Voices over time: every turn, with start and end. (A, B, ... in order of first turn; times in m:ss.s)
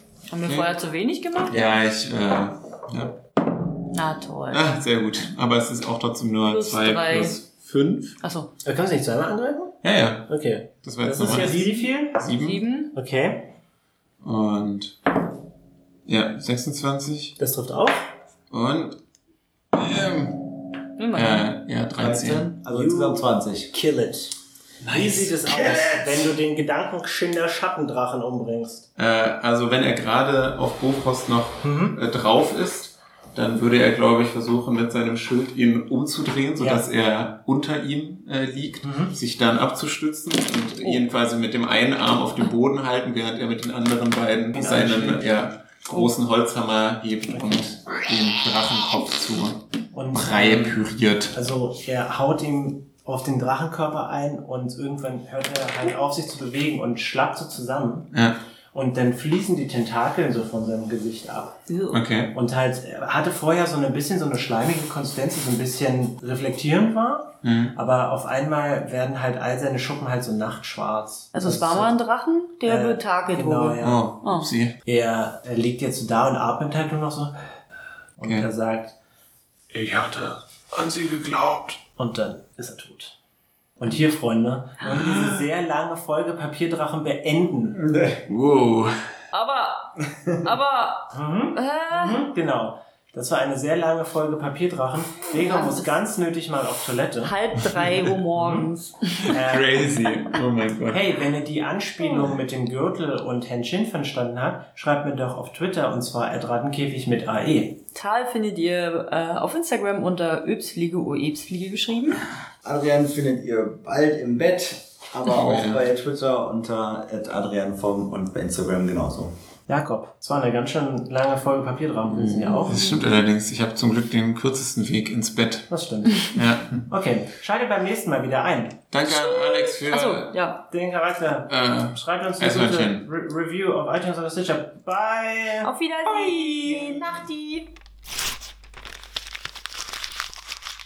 0:00.3-0:01.8 A
0:01.5-0:03.2 B
0:03.9-0:04.7 A
0:04.5-0:08.2 B
0:06.5-0:07.4 A
0:08.2-0:08.5 A
0:08.6-0:12.3 C
0:09.8-0:10.3 B
0:10.8-0:12.6 B
0:11.2-0:12.9 A
0:12.9-0:13.5 C
0:14.2-0:15.0 B
0:16.1-0:17.4 B
0:17.4-0:18.1 C
0:18.5-0:19.0 B
0:19.7-0:20.5 B
0:21.0-0:21.5 A
0:21.1-0:22.5 B
0:21.9-0:23.7 D
0:22.7-0:24.4 C
0:24.8-0:26.3 B
0:24.9-0:28.9 C
0:29.0-0:51.3 B
0:31.6-0:32.0 C
0:38.8-0:39.2 C
0:44.5-0:45.4 C
0:47.3-0:47.7 C
0:49.9-0:50.8 C
0:51.3-0:58.1 C
0:58.1-0:58.4 B
0:58.7-1:01.6 C
1:01.7-1:02.0 A
1:01.9-1:02.4 B
1:02.3-1:11.9 C
1:07.4-1:07.8 B
1:11.3-1:14.5 A
1:12.6-1:14.0 C
1:13.8-1:14.8 B
1:14.8-1:17.3 C
1:18.2-1:19.0 C
1:18.2-1:18.5 B
1:19.7-1:21.8 B
1:22.0-1:23.2 C
1:23.8-1:27.8 C
1:24.8-1:25.5 B
1:27.8-1:28.2 D
1:28.3-1:29.0 B
1:29.3-1:32.2 A
1:31.1-1:37.3 C
1:35.3-1:36.0 A
1:37.2-1:39.3 A
1:38.4-1:38.7 C
1:39.2-1:41.1 B
1:39.3-1:39.9 C
1:40.9-1:47.8 C
1:48.0-1:52.2 A
1:52.6-1:59.3 D
1:55.3-1:55.8 B
1:59.7-2:02.8 C
2:02.2-2:03.0 A
2:02.7-2:05.7 B
2:05.7-2:08.8 C
2:06.2-2:06.8 B
2:08.9-2:10.4 B
2:09.0-2:10.6 A
2:10.7-2:17.1 C
2:11.5-2:13.1 B
2:15.6-2:17.7 A